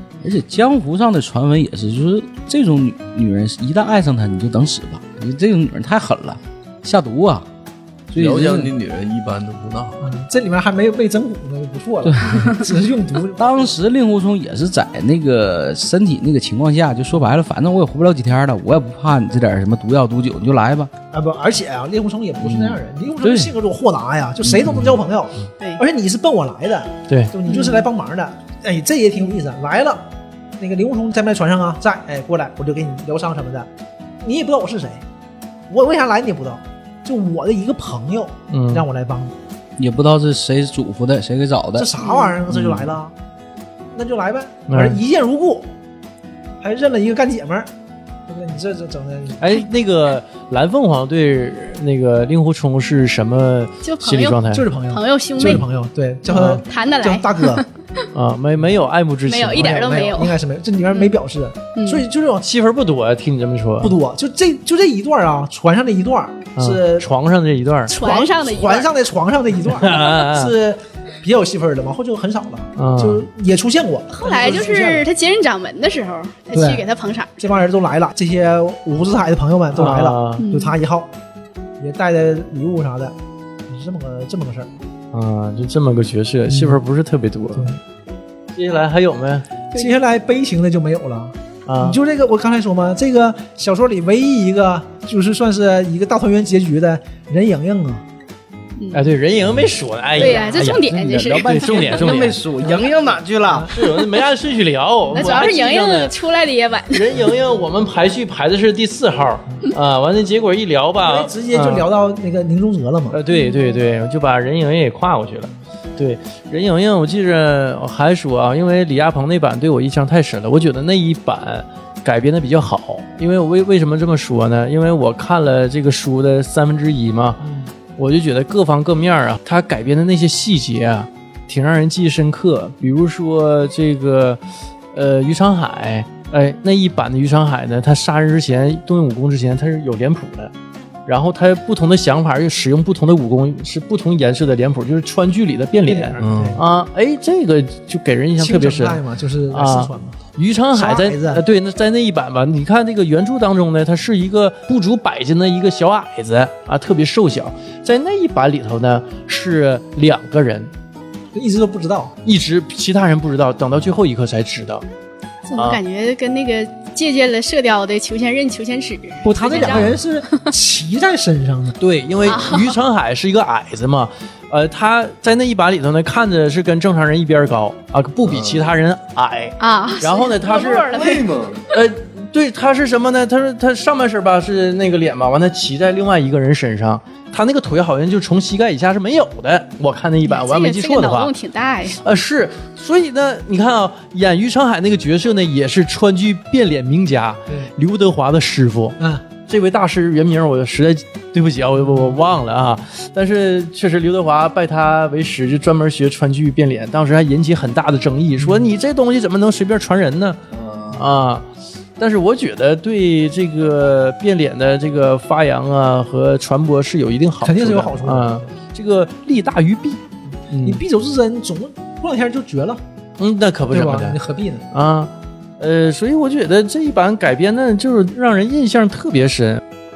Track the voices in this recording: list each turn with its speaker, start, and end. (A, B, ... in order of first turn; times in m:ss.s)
0:00.2-0:07.5 A
0:08.1-0:08.7 A
0:08.2-0:10.0 B
0:10.0-0:13.8 C
0:12.0-0:12.5 A
0:13.4-0:20.9 A
0:21.1-0:33.7 C
0:22.4-0:23.5 A
0:24.4-0:24.8 A
0:27.5-0:27.9 D
0:34.2-0:35.0 C
0:35.7-0:39.3 C
0:38.5-0:38.8 E
0:39.8-0:41.9 A
0:41.8-0:43.1 C
0:42.0-0:42.4 D
0:43.9-0:45.7 C
0:44.7-0:45.0 E
0:46.6-0:47.7 C
0:48.3-0:49.6 C
0:49.4-0:54.6 E
0:53.8-0:55.6 D
0:54.5-0:57.6 C
0:56.3-0:57.7 D
0:58.1-0:59.9 E
0:59.3-1:00.4 D
0:59.5-1:02.5 C
1:00.9-1:01.2 D
1:01.8-1:02.0 D
1:02.4-1:04.0 E
1:03.8-1:07.1 C
1:06.6-1:07.9 E
1:07.9-1:15.1 C
1:07.9-1:08.9 D
1:09.6-1:10.5 E
1:12.8-1:13.2 E
1:14.2-1:17.6 D
1:16.5-1:16.9 C
1:17.4-1:21.1 C
1:19.8-1:20.5 E
1:20.4-1:20.8 D
1:21.8-1:23.2 C
1:23.7-1:24.7 C
1:25.1-1:27.7 E
1:26.5-1:26.8 C
1:28.5-1:29.5 E
1:29.7-1:38.0 C
1:31.7-1:32.0 E
1:38.8-1:39.1 D
1:38.9-1:42.4 E
1:40.2-1:42.0 D
1:40.2-1:40.6 C
1:40.7-1:43.7 A
1:42.6-1:43.7 C
1:43.7-1:46.1 E
1:45.1-1:47.1 D
1:46.9-1:51.8 E
1:51.0-1:53.2 C
1:53.1-2:07.4 E
1:53.3-1:53.8 D
2:07.4-2:07.7 C
2:08.0-2:14.4 E
2:14.9-2:20.5 E
2:21.1-2:40.7 E
2:25.9-2:26.6 C
2:26.2-2:26.6 B
2:28.4-2:30.2 C
2:30.7-2:31.4 C
2:41.3-2:42.2 C
2:42.2-2:44.8 E
2:45.5-2:50.5 D
2:49.2-2:51.8 C
2:51.8-3:01.0 E
2:52.2-2:52.8 D
2:58.3-2:58.7 B
2:59.6-3:01.3 D
3:00.9-3:01.6 B
3:01.7-3:11.3 E
3:10.2-3:12.0 D
3:12.0-3:30.4 E
3:21.8-3:22.2 C
3:28.4-3:28.7 C
3:30.6-3:31.0 B
3:30.9-3:31.5 E
3:32.0-3:40.8 E
3:37.4-3:38.5 C
3:40.6-3:42.8 C
3:43.2-3:44.2 E
3:43.7-3:44.7 C
3:44.7-3:49.6 E